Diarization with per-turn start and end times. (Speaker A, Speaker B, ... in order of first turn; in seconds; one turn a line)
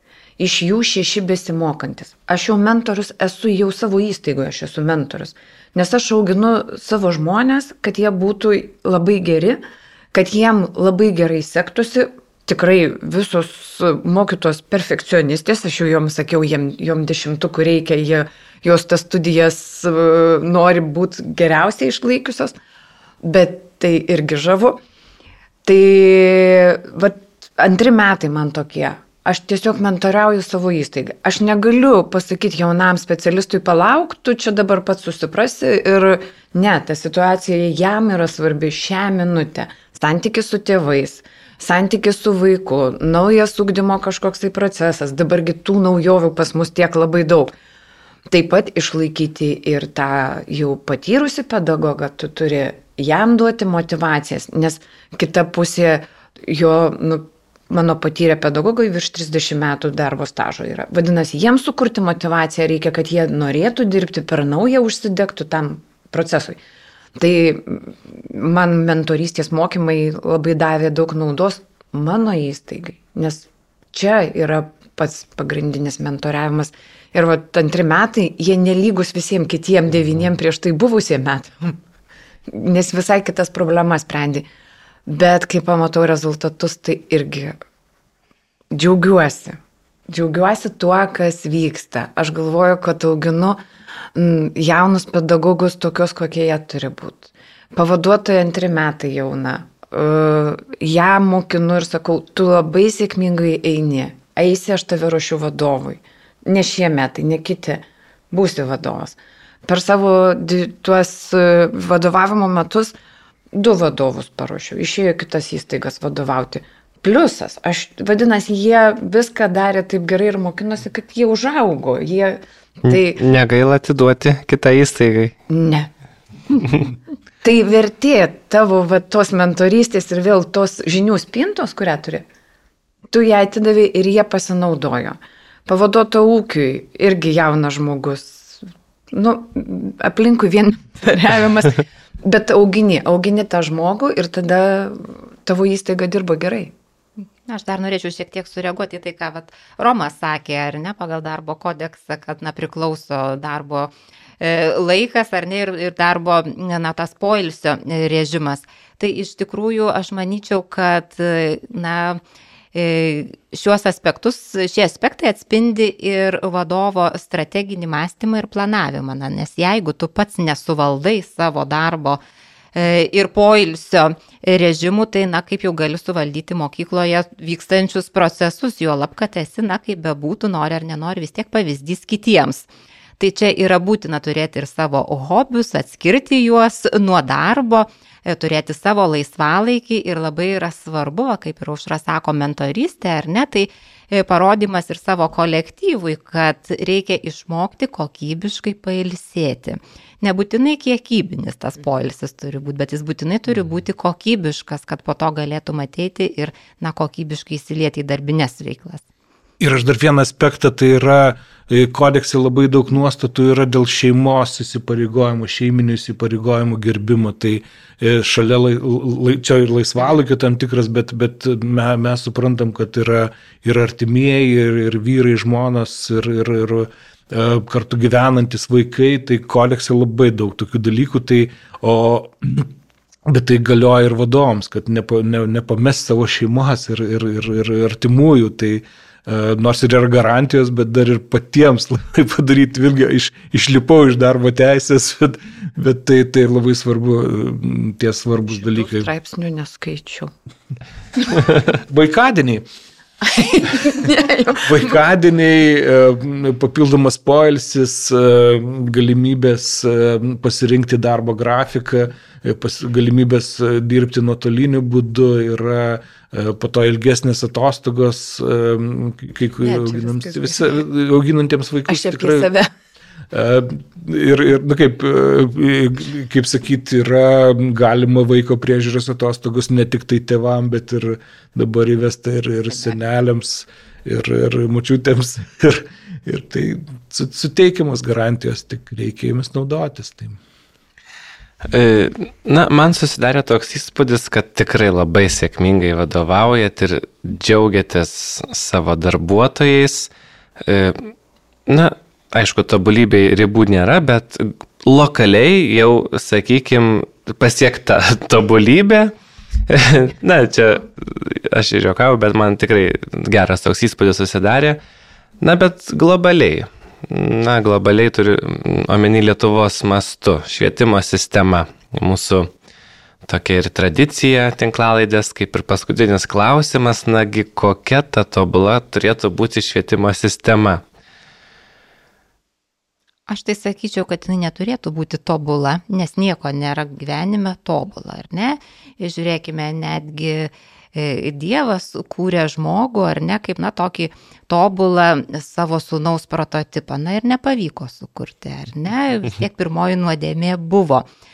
Speaker A: 0.4-9.6
Speaker A: 10.1-22.6
Speaker A: 23.2-24.8
Speaker A: 25.6-47.5
Speaker A: 48.3-66.6
Speaker A: 67.2-81.8
Speaker A: 82.5-84.5
Speaker A: 85.1-87.6
Speaker A: 88.7-89.6
Speaker A: 90.1-93.6
Speaker A: 94.2-112.9
Speaker A: 113.5-123.2
Speaker B: 122.9-125.3
Speaker A: 125.5-125.9
Speaker A: 127.4-132.2
Speaker A: 133.1-146.7
Speaker C: 147.5-162.2
Speaker C: 162.7-172.2
Speaker C: 172.8-182.7
Speaker C: 183.2-209.0
Speaker D: 209.6-232.7
Speaker D: 233.3-249.1
Speaker A: 248.5-250.3
Speaker A: 251.2-251.5
Speaker D: 251.7-252.7
Speaker A: 253.2-255.0
Speaker D: 254.7-272.5
Speaker A: 269.6-270.8
Speaker A: 271.9-272.7
Speaker D: 273.3-290.4
Speaker B: 291.7-301.1
Speaker B: 301.7-309.1
Speaker B: 309.7-314.8
Speaker B: 315.4-322.5
Speaker B: 323.3-330.8
Speaker C: 333.3-351.1